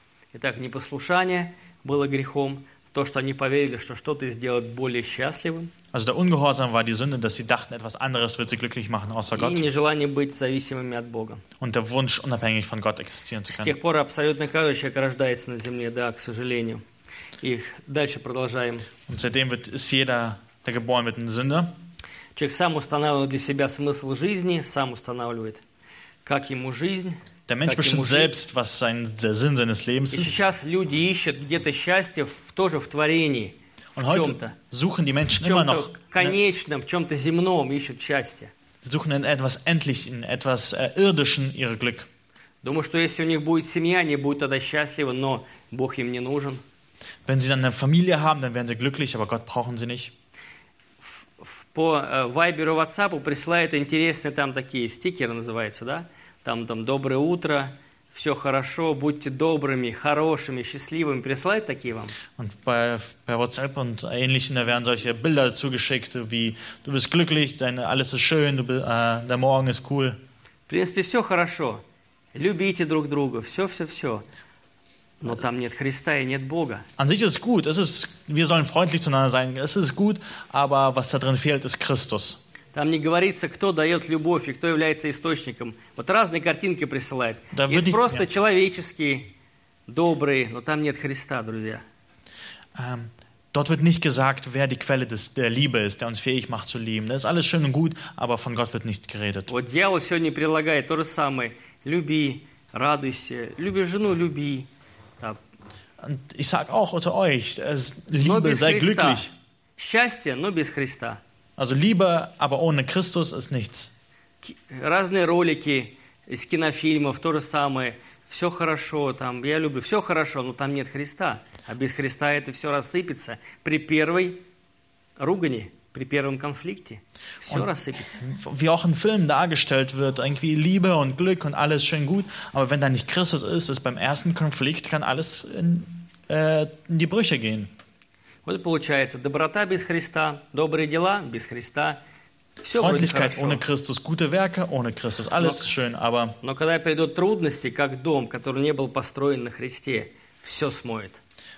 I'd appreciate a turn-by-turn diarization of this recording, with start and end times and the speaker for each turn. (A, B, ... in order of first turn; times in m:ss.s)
0:00.3-0:05.7 A
0:05.9-0:09.6 B
0:09.3-0:11.4 A
0:11.6-0:13.8 B
0:13.5-0:16.8 A
0:17.4-0:18.9 A
0:19.1-0:21.7 B
0:22.4-0:25.6 A
0:26.2-0:28.3 A
0:27.5-0:30.4 B
0:30.1-0:34.6 A
0:34.0-0:36.4 B
0:35.4-0:38.5 A
0:38.8-0:42.1 B
0:42.6-0:46.6 A
0:47.3-0:50.1 B
0:51.0-1:02.2 A
1:02.4-1:10.2 B
1:10.7-1:11.8 A
1:12.4-1:14.2 A
1:15.2-1:16.8 A
1:17.0-1:22.4 B
1:22.7-1:29.3 A
1:27.5-1:28.2 B
1:29.9-1:31.8 A
1:32.8-1:39.5 B
1:39.5-1:44.7 A
1:46.0-1:49.3 B
1:48.2-1:51.2 A
1:51.6-1:53.9 B
1:54.4-2:04.4 A
2:05.2-2:08.2 A
2:08.2-2:17.7 B
2:18.4-2:22.0 A
2:22.6-2:23.6 A
2:22.8-2:26.4 B
2:26.4-2:31.2 A